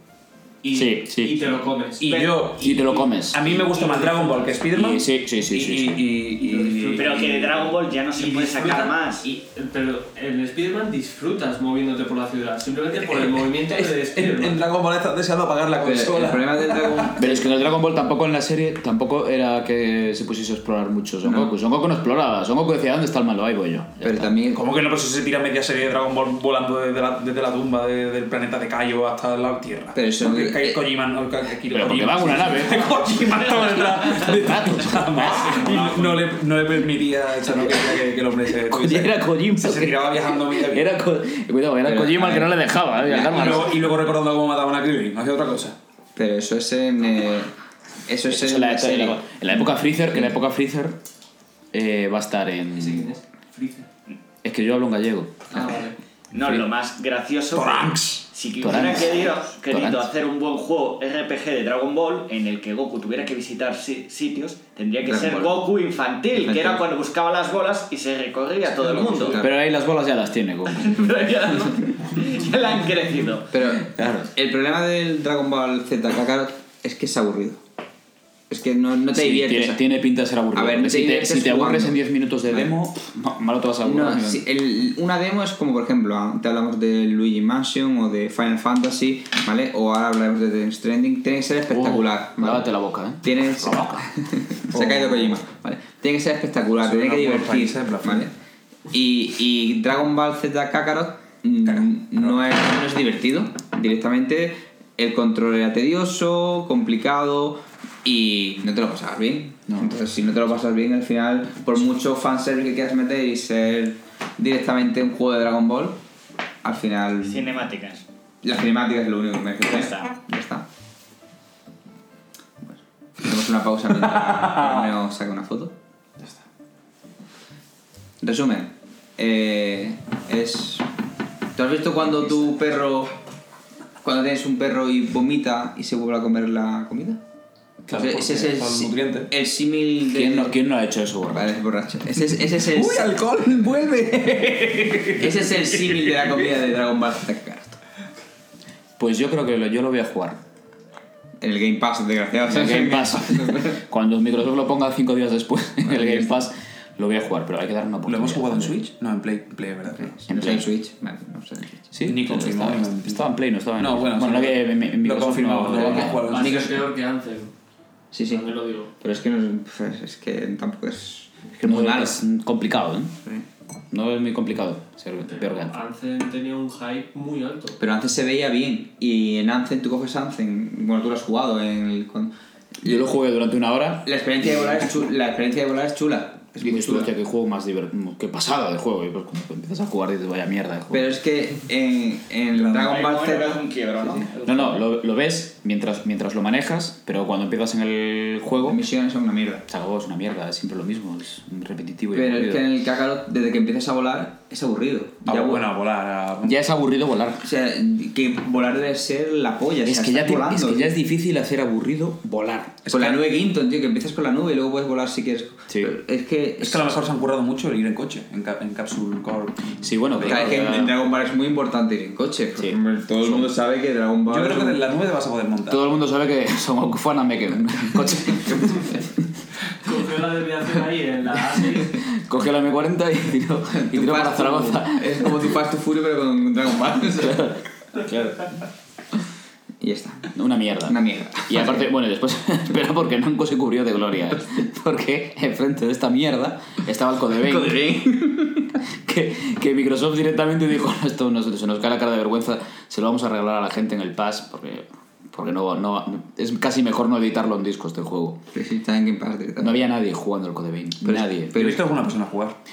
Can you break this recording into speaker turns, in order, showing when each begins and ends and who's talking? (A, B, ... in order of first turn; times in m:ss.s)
0:00.6-0:04.6 A
0:00.7-0:01.4 B
0:02.0-0:07.7 C
0:02.6-0:03.5 B
0:04.8-0:06.1 B
0:06.4-0:14.6 A
0:06.9-0:09.3 D
0:12.9-0:17.5 C
0:15.8-0:17.4 E
0:17.2-0:24.3 B
0:21.2-0:21.5 E
0:24.0-0:24.6 E
0:24.5-0:40.9 C
0:29.9-0:30.9 E
0:31.7-0:35.6 B
0:38.6-0:43.8 B
0:41.8-0:43.7 E
0:43.1-0:45.8 C
0:46.2-0:47.5 E
0:48.1-0:49.3 E
0:48.3-0:51.0 B
0:51.7-0:53.1 B
0:52.8-0:53.9 A
0:54.4-0:55.6 B
0:55.5-0:56.0 A
0:56.3-1:09.4 D
0:57.5-0:58.3 C
0:58.6-1:00.1 B
1:05.1-1:05.6 E
1:06.4-1:06.8 E
1:08.7-1:09.4 C
1:09.2-1:09.5 E
1:09.4-1:11.0 B
1:10.7-1:13.5 D
1:13.5-1:17.6 E
1:13.8-1:14.3 B
1:18.5-1:19.8 E
1:19.2-1:24.4 B
1:20.5-1:22.7 E
1:23.8-1:32.7 E
1:31.7-1:34.1 B
1:33.2-1:38.3 E
1:34.7-1:35.4 C
1:36.8-1:38.3 C
1:38.9-1:56.0 E
1:41.7-1:42.4 C
1:49.7-1:50.0 B
1:56.6-1:57.6 E
1:57.2-1:58.0 D
1:58.4-2:00.7 E
1:59.7-2:00.1 D
2:02.7-2:05.8 E
2:08.2-2:10.9 E
2:11.6-2:13.1 E
2:14.0-2:17.2 E
2:17.8-2:19.3 C
2:17.9-2:20.6 E
2:20.1-2:21.6 B
2:21.3-2:23.2 E
2:22.2-2:26.3 C
2:25.2-2:27.8 E
2:29.0-2:30.4 B
2:31.4-2:33.8 E
2:32.5-2:38.8 B
2:35.8-2:36.3 E
2:38.1-2:40.1 C
2:39.9-2:41.9 E
2:40.3-2:40.7 B
2:41.9-2:46.5 B
2:42.0-2:46.9 C
2:46.0-2:47.5 A
2:48.1-2:52.2 E
2:48.3-2:48.9 A
2:51.6-2:53.2 B
2:53.9-2:55.8 B
2:55.2-2:57.8 A
2:57.8-3:02.3 E
3:02.8-3:04.1 B
3:04.0-3:07.1 E
3:06.6-3:11.2 B
3:10.9-3:14.3 E
3:12.7-3:14.8 D
3:14.4-3:18.8 B
3:18.6-3:19.6 E
3:19.7-3:22.6 B
3:22.1-3:25.6 E
3:25.3-3:26.6 C
3:26.4-3:27.4 B
3:27.4-3:30.9 E
3:29.8-3:32.8 B
3:32.8-3:33.2 C
3:32.9-3:36.9 E
3:35.7-3:35.9 B
3:36.6-3:40.6 C
3:39.8-3:41.0 B
3:40.2-3:44.8 E
3:42.6-3:43.5 B
3:44.3-3:45.8 C
3:45.7-3:49.1 B
3:49.8-3:52.0 A
3:52.0-3:55.5 B
3:53.7-3:57.6 E
3:57.2-3:57.6 B
3:59.8-4:00.3 E
4:00.3-4:08.1 B
4:00.9-4:01.9 E
4:07.4-4:08.7 E
4:09.0-4:18.4 B
4:18.5-4:19.8 E
4:19.6-4:21.7 B
4:21.0-4:21.8 E
4:21.5-4:22.6 C